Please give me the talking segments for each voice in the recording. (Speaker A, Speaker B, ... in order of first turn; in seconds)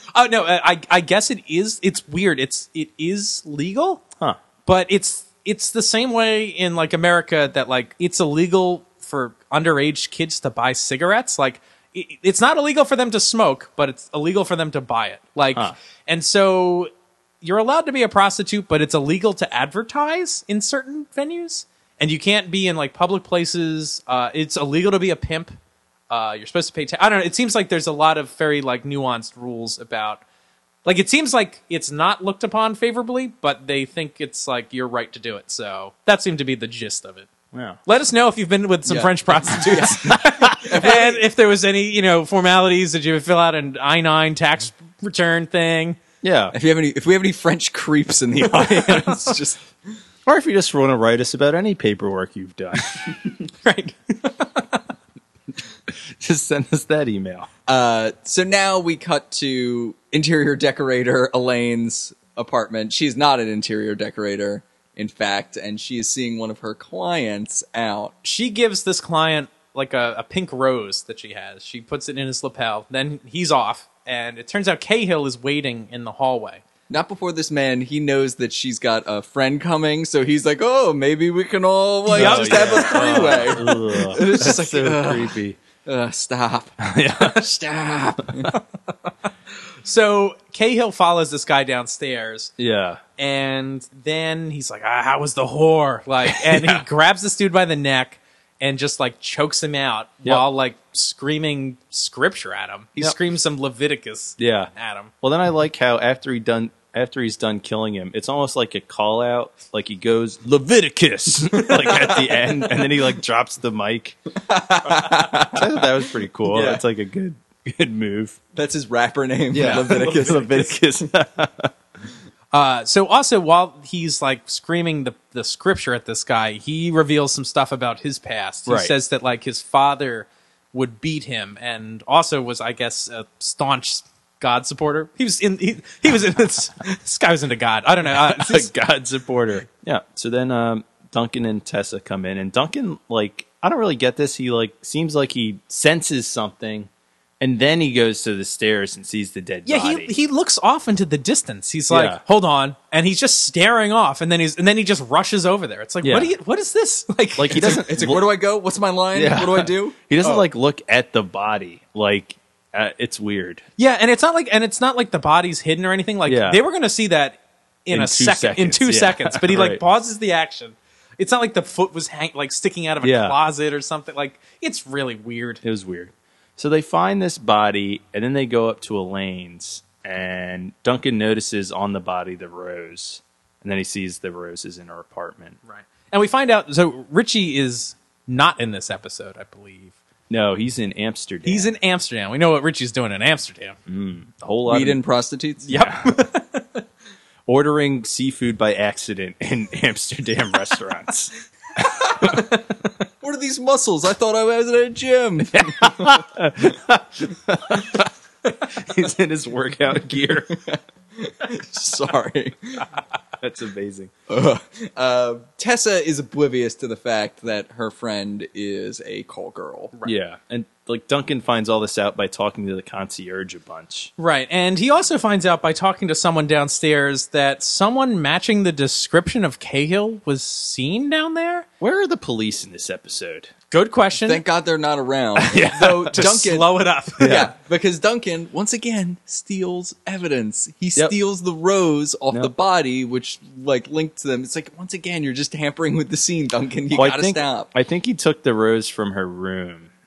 Speaker A: 0.1-4.0, 4.7-16.9, 17.4-25.6, 26.1-30.2, 30.9-37.3, 37.9-46.0, 53.4-54.8, 68.2-76.6, 82.1-83.6, 89.8-92.5, 93.2-105.1, 122.5-138.7, 149.7-157.8, 163.8-175.6, 185.6-189.9, 191.4-193.8, 195.7-196.8, 224.2-231.7, 233.7-234.4, 236.1-237.4
Speaker B: 37.5-37.8, 40.0-40.6, 46.2-46.5, 50.3-53.0, 55.9-57.5, 82.1-85.6, 86.8-87.5, 92.6-93.0, 96.3-96.8, 104.4-104.7, 105.2-114.2, 114.8-118.4, 119.5-121.7, 128.7-128.9, 138.1-146.9, 147.4-150.2, 151.9-152.2, 156.0-156.3, 157.4-158.2, 159.1-163.7, 166.3-166.6, 167.9-169.8, 173.0-173.4, 175.6-185.6, 190.3-191.7, 193.9-195.0, 195.7-196.2, 197.5-202.4, 205.5-208.1, 208.6-210.6, 213.4-214.1, 220.0-224.1, 231.8-233.5, 235.4-236.2, 237.2-237.5, 246.9-249.9
Speaker C: 38.9-40.0, 40.6-41.2, 46.5-49.7, 57.7-68.1, 76.9-88.5, 111.6-112.6, 114.5-115.8, 116.5-116.8, 118.5-121.0, 157.5-160.0, 194.7-195.7, 203.2-206.2, 210.7-212.9, 214.3-219.9, 234.2-247.7